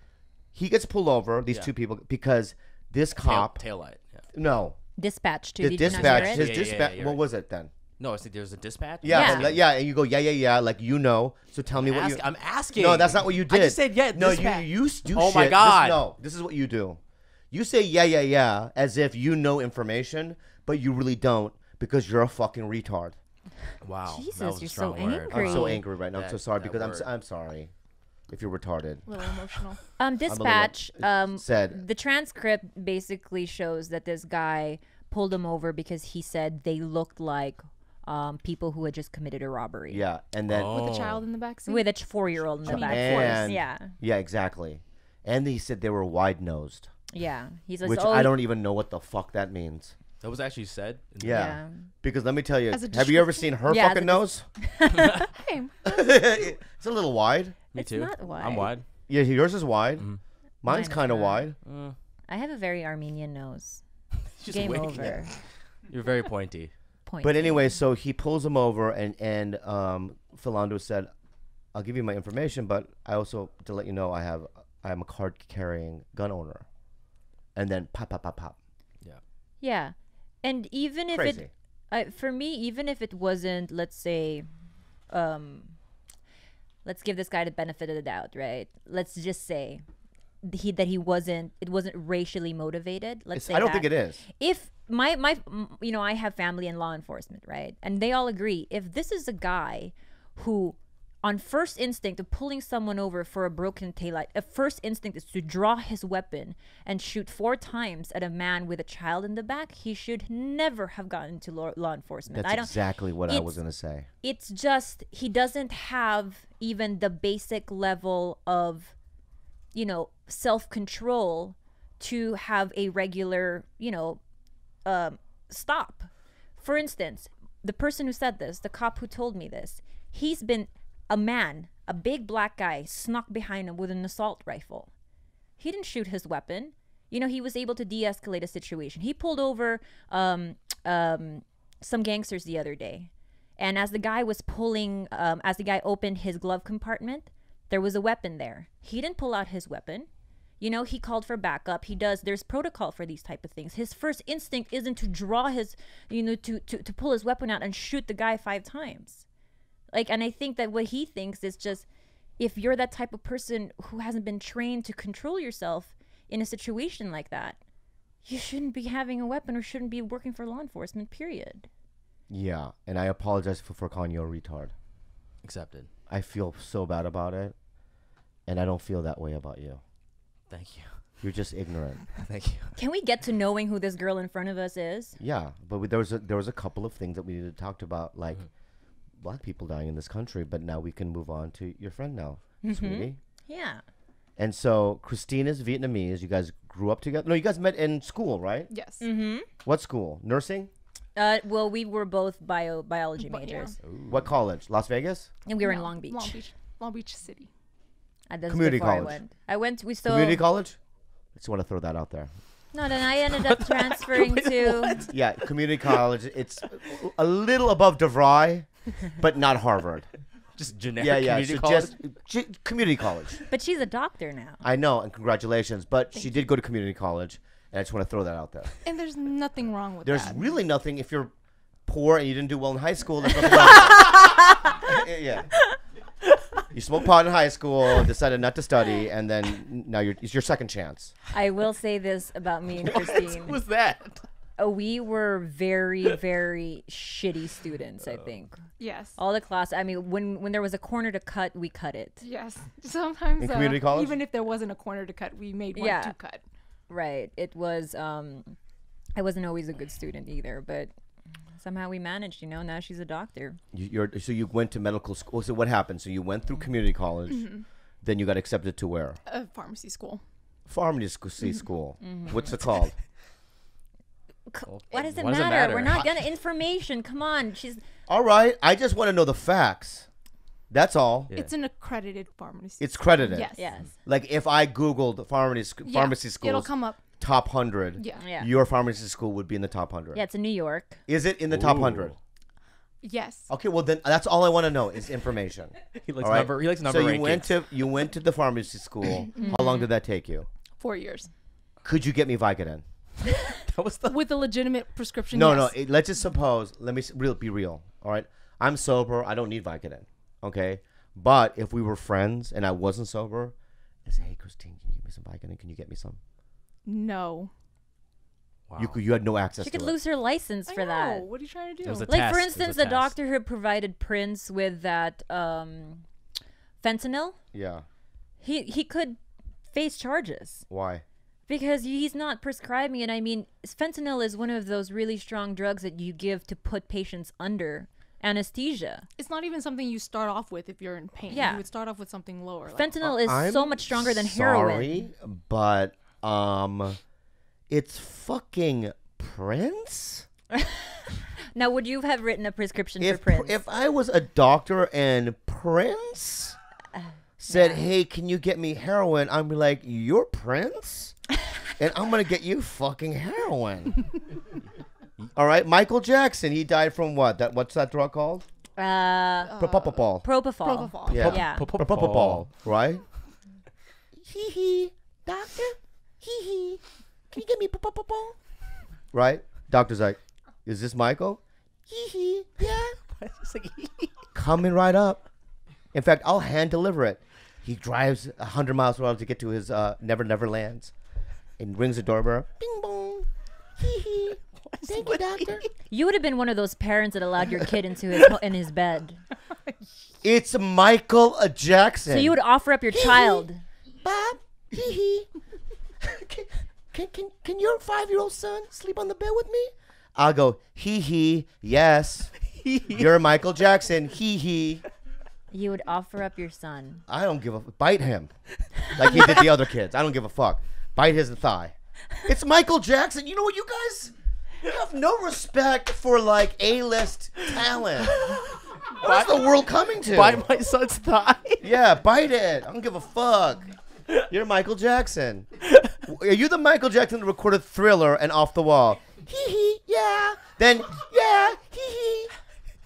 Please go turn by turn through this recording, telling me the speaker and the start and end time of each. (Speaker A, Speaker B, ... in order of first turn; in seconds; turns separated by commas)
Speaker A: 0.5-3.6, Speaker B: 3.2-4.2, Speaker A: 4.3-4.8, Speaker C: 5.0-6.4, Speaker A: 5.6-7.7, Speaker B: 5.8-7.2, Speaker B: 8.0-9.6, Speaker A: 9.0-17.0, Speaker C: 9.1-9.4, Speaker B: 11.8-16.0, Speaker A: 17.5-23.1, Speaker B: 23.8-27.1, Speaker C: 24.1-25.8, Speaker A: 25.3-27.7, Speaker A: 28.3-29.0, Speaker D: 29.1-29.8, Speaker C: 30.0-40.0, Speaker A: 30.3-31.8, Speaker A: 39.9-40.7, Speaker B: 40.5-41.2, Speaker D: 40.7-43.5, Speaker C: 41.7-43.9, Speaker A: 42.6-46.9, Speaker C: 47.1-48.3, Speaker A: 47.8-49.9, Speaker B: 50.2-51.5, Speaker A: 51.2-54.5, Speaker C: 51.3-51.9, Speaker D: 52.7-53.5, Speaker C: 53.7-55.3, Speaker D: 55.3-56.1, Speaker A: 55.9-57.6, Speaker C: 57.7-58.7, Speaker B: 57.7-58.8, Speaker A: 59.1-60.1, Speaker A: 60.6-61.6, Speaker C: 60.6-61.5, Speaker B: 61.6-61.9, Speaker C: 62.3-63.8, Speaker B: 64.4-66.7, Speaker C: 64.5-65.3, Speaker C: 67.0-67.8, Speaker A: 67.2-71.1, Speaker A: 71.7-76.7, Speaker A: 77.5-78.6, Speaker C: 79.6-84.5, Speaker A: 81.1-81.5, Speaker C: 85.1-85.7, Speaker C: 86.8-89.8, Speaker C: 90.4-113.6, Speaker A: 93.3-94.2, Speaker A: 112.3-114.1, Speaker C: 114.2-118.9, Speaker C: 119.7-124.2, Speaker C: 124.8-134.9, Speaker C: 135.6-150.1, Speaker C: 150.6-159.2, Speaker C: 159.9-161.8, Speaker C: 162.4-167.6, Speaker C: 168.2-171.7, Speaker A: 172.3-174.7, Speaker B: 175.4-175.9, Speaker A: 176.1-177.5, Speaker A: 178.4-179.8, Speaker B: 180.5-180.9, Speaker A: 181.2-182.0, Speaker B: 182.2-182.8, Speaker C: 182.8-185.2, Speaker A: 185.2-188.4, Speaker A: 189.2-193.2, Speaker C: 192.6-193.8, Speaker A: 194.4-198.7, Speaker D: 198.7-199.0, Speaker C: 199.0-199.5, Speaker A: 199.6-200.7, Speaker C: 201.2-203.7, Speaker D: 203.2-203.8, Speaker B: 203.8-204.2, Speaker A: 204.1-205.3, Speaker C: 205.4-206.4, Speaker D: 205.6-207.5, Speaker C: 208.3-210.4, Speaker A: 208.5-209.2, Speaker A: 210.0-210.8, Speaker A: 211.3-212.3, Speaker C: 212.7-215.0, Speaker B: 213.3-215.2, Speaker A: 215.1-220.1, Speaker B: 220.6-221.9, Speaker A: 221.0-223.4, Speaker C: 223.5-224.6, Speaker A: 224.6-228.7, Speaker D: 228.8-230.4, Speaker A: 230.0-231.3, Speaker A: 231.8-235.5, Speaker C: 234.0-234.7, Speaker A: 236.7-241.1, Speaker C: 241.3-243.6, Speaker B: 242.8-244.2, Speaker C: 244.6-248.6, Speaker D: 248.8-249.2, Speaker C: 249.2-252.2, Speaker D: 252.2-256.4, Speaker A: 253.4-254.2, Speaker C: 255.8-256.1, Speaker C: 256.9-258.6, Speaker C: 259.1-260.9, Speaker C: 261.6-263.6, Speaker A: 263.7-267.5, Speaker D: 267.3-267.6, Speaker A: 268.0-269.2, Speaker D: 269.3-270.2, Speaker A: 270.7-272.9, Speaker C: 272.0-272.6, Speaker C: 274.5-277.8, Speaker B: 274.6-276.1, Speaker A: 278.1-280.1, Speaker A: 280.7-281.3, Speaker D: 281.3-283.7, Speaker A: 282.8-290.2, Speaker C: 283.5-283.9, Speaker D: 285.9-287.0, Speaker D: 287.9-288.2, Speaker C: 288.2-288.5, Speaker C: 290.1-291.0, Speaker A: 291.1-292.1, Speaker B: 291.5-292.1, Speaker D: 293.0-293.5, Speaker A: 293.5-300.5, Speaker B: 296.0-297.5, Speaker C: 299.4-299.9, Speaker D: 300.8-301.3, Speaker A: 301.8-302.8, Speaker B: 303.7-304.2, Speaker D: 304.1-305.7, Speaker A: 305.3-313.5, Speaker A: 314.0-316.2, Speaker D: 316.8-317.5, Speaker B: 318.7-319.0, Speaker A: 318.8-320.0, Speaker C: 319.6-321.2, Speaker D: 320.7-322.1, Speaker B: 321.8-323.1, Speaker C: 322.1-326.0, Speaker C: 326.8-327.4, Speaker A: 327.5-327.8, Speaker C: 328.4-329.2, Speaker C: 329.7-330.6, Speaker A: 330.7-331.0, Speaker C: 331.5-339.1, Speaker D: 339.2-342.9, Speaker C: 341.3-341.6, Speaker C: 342.7-345.1, Speaker A: 343.0-347.0, Speaker A: 347.7-350.2, Speaker C: 350.5-351.0, Speaker C: 351.5-353.6, Speaker A: 353.0-356.6, Speaker C: 356.9-357.8, Speaker A: 357.4-361.2, Speaker A: 361.8-364.0, Speaker A: 365.3-368.4, Speaker C: 368.8-369.5, Speaker D: 369.4-370.0, Speaker A: 369.6-370.2, Speaker C: 370.2-371.6, Speaker D: 370.6-371.3, Speaker A: 371.0-373.0, Speaker B: 371.1-372.5, Speaker A: 374.1-378.4, Speaker A: 379.1-383.0, Speaker B: 382.6-384.1, Speaker A: 384.3-385.3, Speaker A: 385.9-390.9, Speaker A: 391.6-395.7, Speaker B: 394.7-395.7, Speaker C: 395.9-399.2, Speaker A: 400.2-402.4, Speaker C: 402.1-403.6, Speaker A: 402.9-403.4, Speaker A: 404.0-405.3, Speaker A: 406.0-412.3, Speaker B: 412.5-413.1, Speaker A: 412.9-414.8, Speaker C: 415.5-417.0, Speaker A: 417.1-418.3, Speaker A: 418.8-421.7, Speaker A: 422.2-428.3, Speaker B: 428.0-429.5, Speaker A: 429.0-430.4, Speaker B: 430.1-431.6, Speaker A: 431.6-433.7, Speaker A: 434.3-435.5, Speaker A: 436.0-442.3